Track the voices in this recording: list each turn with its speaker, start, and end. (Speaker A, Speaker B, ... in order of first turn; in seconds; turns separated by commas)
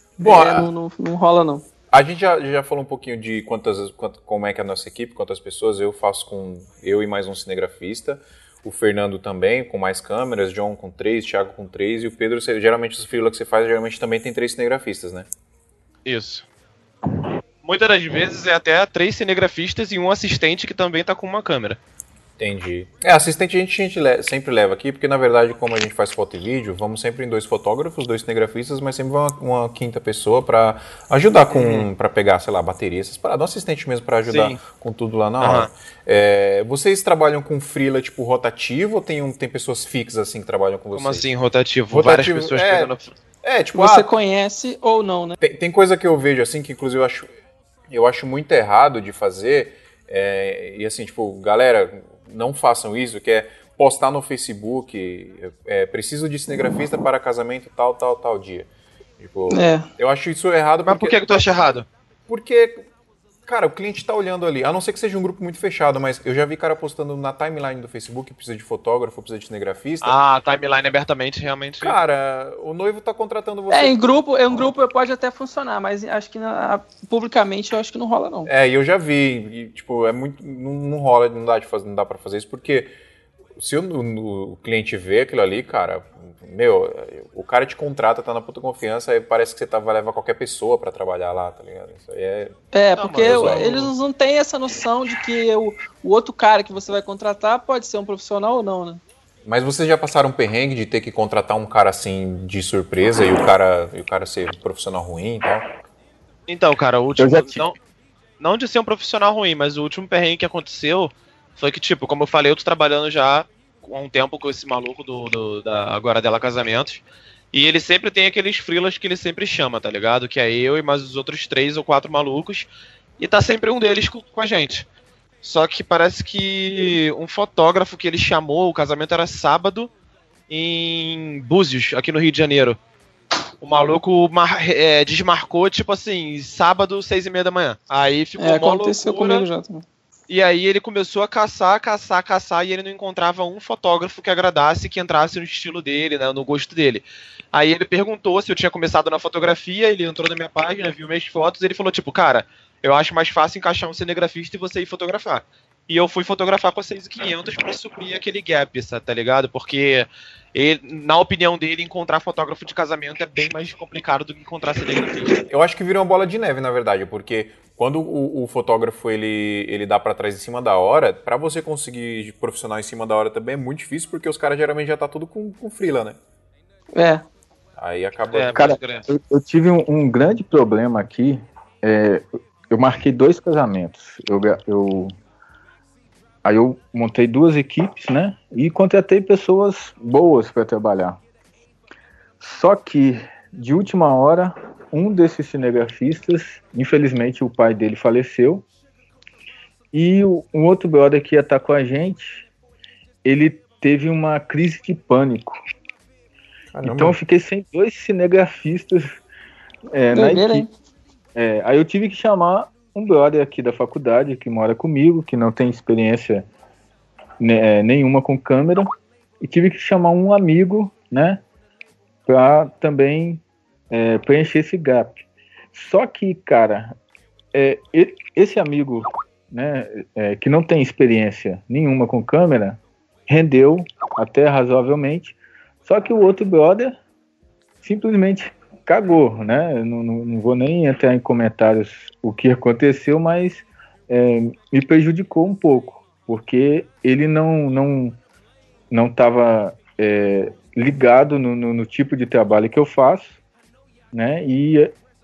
Speaker A: 0.2-0.7, Speaker B: 0.2-1.6, Speaker A: 1.9-15.3, Speaker C: 16.1-16.5, Speaker C: 17.6-21.8, Speaker A: 22.4-41.3, Speaker C: 31.5-31.9, Speaker C: 34.3-34.6, Speaker C: 35.4-35.7, Speaker C: 40.9-43.2, Speaker A: 41.9-44.1, Speaker B: 43.7-45.4, Speaker A: 45.4-47.3, Speaker A: 47.9-61.6, Speaker B: 59.5-59.9, Speaker C: 60.9-61.9, Speaker A: 62.3-62.9, Speaker A: 63.5-70.2, Speaker C: 70.0-72.0, Speaker A: 71.8-74.7, Speaker B: 73.7-78.5, Speaker A: 78.5-82.9, Speaker A: 83.6-92.6, Speaker B: 92.7-99.0, Speaker C: 93.0-93.9, Speaker A: 93.2-93.9, Speaker A: 99.5-105.7, Speaker C: 106.5-107.8, Speaker D: 107.2-107.7, Speaker C: 108.4-124.9, Speaker C: 125.4-129.9, Speaker C: 130.5-132.8, Speaker C: 133.6-139.5, Speaker B: 138.4-139.8, Speaker C: 140.3-165.5, Speaker A: 165.5-176.2, Speaker B: 176.9-177.2, Speaker A: 177.8-178.8, Speaker C: 178.3-179.1, Speaker D: 178.6-185.2, Speaker D: 186.4-191.2, Speaker D: 192.4-198.7, Speaker D: 199.9-202.5, Speaker D: 203.2-205.6, Speaker A: 206.7-207.2, Speaker D: 206.8-209.1, Speaker D: 209.9-210.7, Speaker B: 210.1-210.7, Speaker D: 211.3-216.5, Speaker D: 217.4-218.9, Speaker D: 219.4-221.4, Speaker D: 222.3-225.2, Speaker D: 225.7-226.9, Speaker D: 227.5-237.0, Speaker D: 237.8-248.2, Speaker D: 248.9-253.4, Speaker D: 254.1-254.9